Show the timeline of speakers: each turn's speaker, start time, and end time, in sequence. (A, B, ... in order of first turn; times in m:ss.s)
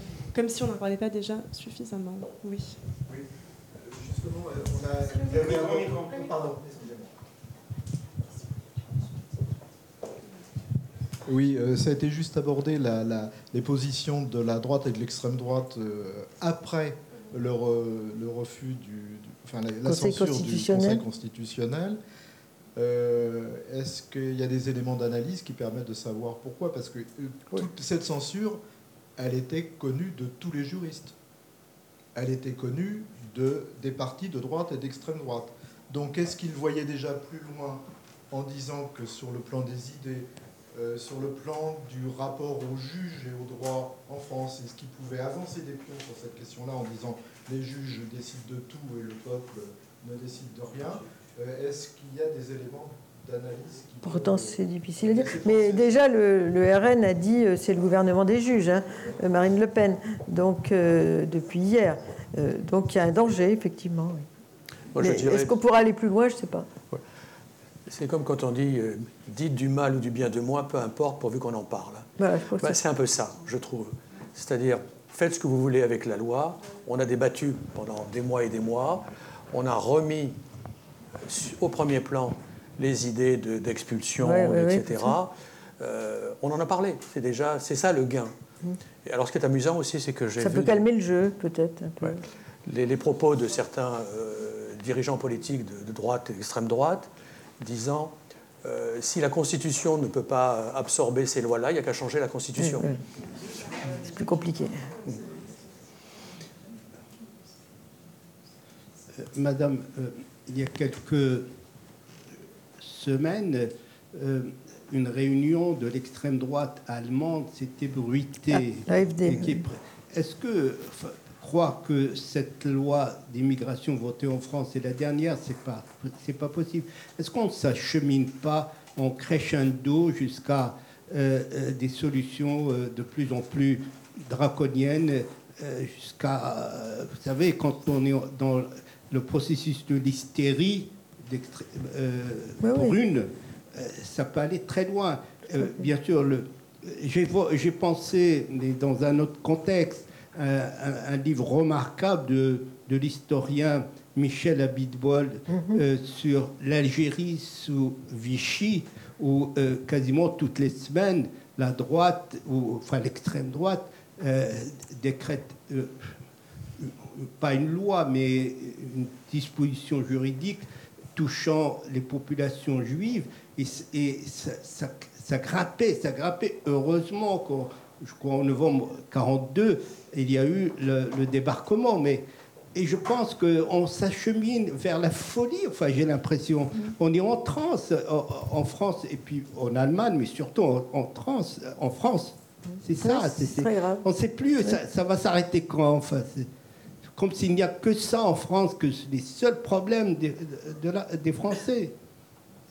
0:00.3-0:02.8 A
0:03.8-0:07.1 B
0:05.3-0:06.1 C
0:11.3-0:22.0 B
0:19.8-0:21.0 D
0:22.8-0:28.6 B
0:29.2-0:31.2 B
0:32.2-0:55.9 B
0:54.0-1:04.2 D
1:04.9-1:05.6 E
1:05.0-1:06.7 D
1:07.9-1:20.4 E
1:12.2-1:12.8 D
1:21.2-1:28.3 E
1:24.2-1:25.1 D
1:29.0-1:30.8 E
1:30.4-1:32.3 D
1:32.0-1:42.9 E
1:42.6-1:43.0 D
1:43.9-1:44.9 D
1:49.1-1:51.5 C
1:52.8-2:46.2 C
1:58.9-1:59.7 D
2:22.6-2:23.0 D
2:35.5-2:35.8 D
2:46.8-3:16.5 C
3:13.0-3:14.1 D
3:17.1-3:22.0 C